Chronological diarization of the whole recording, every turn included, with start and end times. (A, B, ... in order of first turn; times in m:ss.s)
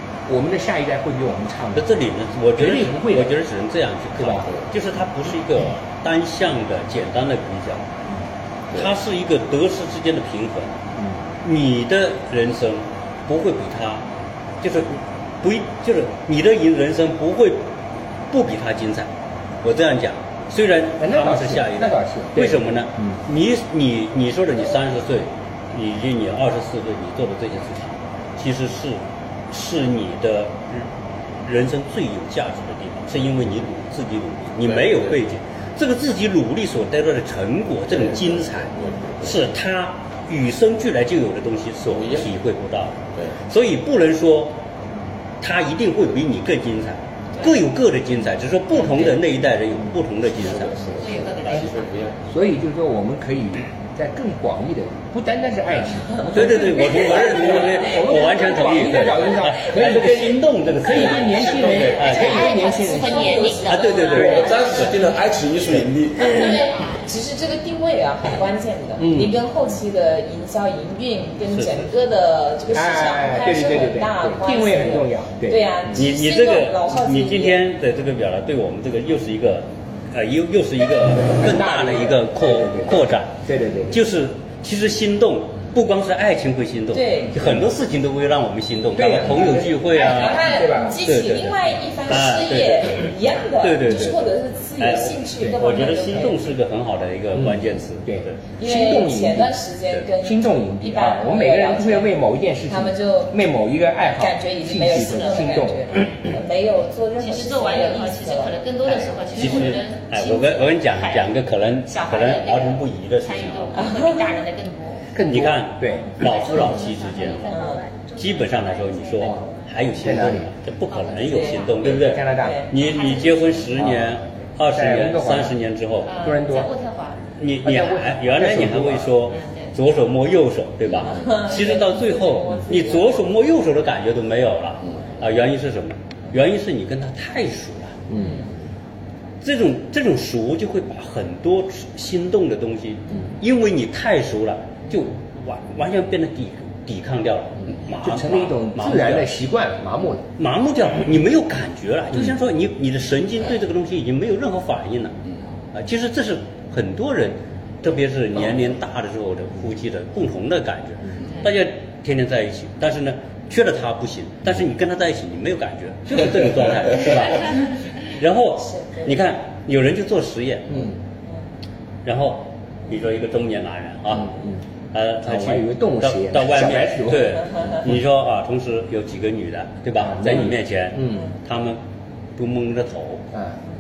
0:00.3-0:01.9 A
0:01.8-0:07.9 B
0:02.6-0:03.4 A
0:04.2-0:04.5 A
0:08.7-0:10.8 B
0:11.0-0:11.3 A
0:11.4-0:14.1 B
0:14.6-0:17.7 B
0:18.3-0:19.1 B
0:19.6-0:30.9 B
0:21.0-0:23.2 A
0:31.4-0:44.6 B
0:34.6-0:35.2 C
0:37.9-0:39.5 C
0:41.9-0:42.3 C
0:45.4-0:50.9 B
0:50.4-0:52.2 C
0:51.0-0:51.8 D
0:52.3-1:04.5 A
0:56.3-1:02.6 B
1:01.2-1:02.0 C
1:02.0-1:05.0 D
1:02.3-1:04.9 E
1:03.6-1:04.6 B
1:04.2-1:06.6 C
1:06.2-1:17.6 E
1:09.0-1:09.4 A
1:12.7-1:15.9 A
1:15.9-1:38.4 B
1:21.3-1:24.0 A
1:26.9-1:27.4 E
1:28.9-1:31.0 A
1:29.9-1:36.4 E
1:37.3-1:39.6 A
1:38.6-1:43.4 E
1:40.2-1:46.0 A
1:44.2-1:48.6 E
1:47.2-1:55.1 D
1:49.3-1:53.9 B
1:53.8-1:54.2 E
1:55.1-1:56.2 A
1:55.3-1:57.6 B
1:56.2-1:59.7 F
1:56.2-1:57.7 D
1:57.5-1:57.8 E
1:58.2-2:06.2 B
1:59.2-1:59.4 A
2:00.0-2:00.5 A
2:00.9-2:01.9 D
2:01.8-2:02.7 A
2:02.4-2:02.7 E
2:02.7-2:03.7 D
2:03.7-2:04.1 A
2:04.7-2:05.6 A
2:06.0-2:07.3 D
2:06.2-2:06.7 A
2:07.4-2:18.1 B
2:07.6-2:09.3 A
2:09.3-2:09.8 D
2:11.2-2:12.8 E
2:18.1-2:18.5 A
2:19.4-2:29.3 B
2:28.0-2:30.3 A
2:30.4-2:35.2 B
2:35.7-2:50.9 B
2:48.8-2:49.1 E
2:50.7-2:51.0 A
2:52.0-3:01.8 B
2:54.2-2:54.6 A
2:55.2-2:57.6 A
3:00.0-3:01.3 A
3:02.4-3:03.3 B
3:03.3-3:03.6 A